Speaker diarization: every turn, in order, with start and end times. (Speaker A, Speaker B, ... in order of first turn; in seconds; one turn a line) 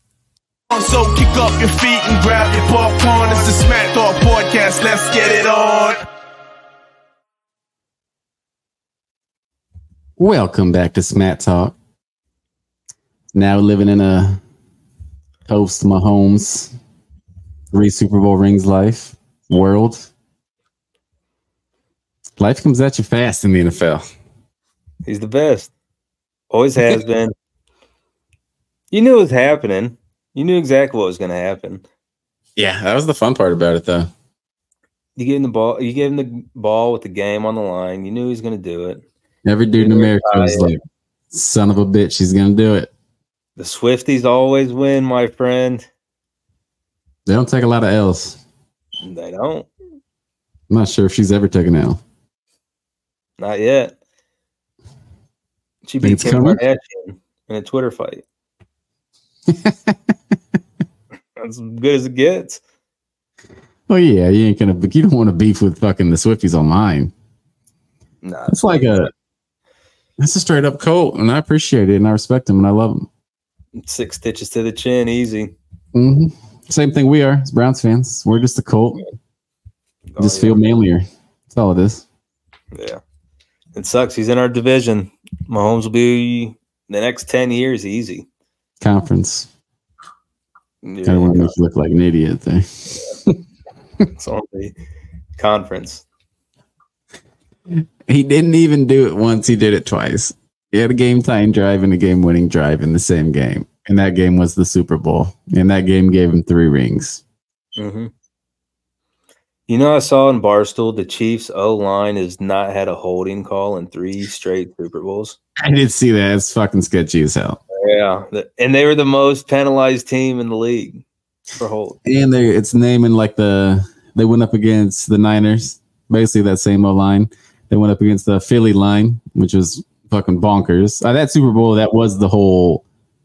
Speaker A: 0.7-6.0
Speaker B: 10.2-11.8
Speaker B: 13.3-14.4
Speaker B: 15.5-16.7
Speaker B: 17.7-20.1
Speaker B: 22.4-24.1
Speaker C: 25.1-25.7
Speaker C: 26.5-27.3
Speaker C: 28.9-31.9
Speaker B: 32.6-34.1
Speaker C: 35.2-39.0
Speaker B: 39.4-40.8
Speaker C: 39.8-40.7
Speaker B: 41.3-42.9
Speaker C: 43.6-45.9
Speaker B: 47.3-48.4
Speaker C: 49.0-49.7
Speaker B: 50.7-52.0
Speaker C: 53.4-53.9
Speaker C: 55.9-58.2
Speaker B: 56.0-56.6
Speaker B: 59.5-60.1
Speaker C: 61.4-62.6
Speaker B: 63.9-67.1
Speaker C: 68.2-69.0
Speaker B: 68.5-69.1
Speaker B: 70.2-73.1
Speaker C: 73.8-75.5
Speaker B: 75.9-79.0
Speaker C: 80.1-80.6
Speaker B: 80.2-82.0
Speaker C: 82.7-83.0
Speaker C: 83.8-88.3
Speaker B: 88.8-89.5
Speaker C: 90.8-91.5
Speaker B: 91.0-93.4
Speaker C: 94.1-94.8
Speaker C: 95.4-96.0
Speaker B: 97.7-107.2
Speaker C: 107.8-108.1
Speaker C: 109.7-115.4
Speaker B: 115.6-117.6
Speaker C: 117.7-121.0
Speaker C: 121.6-122.0
Speaker B: 122.0-132.8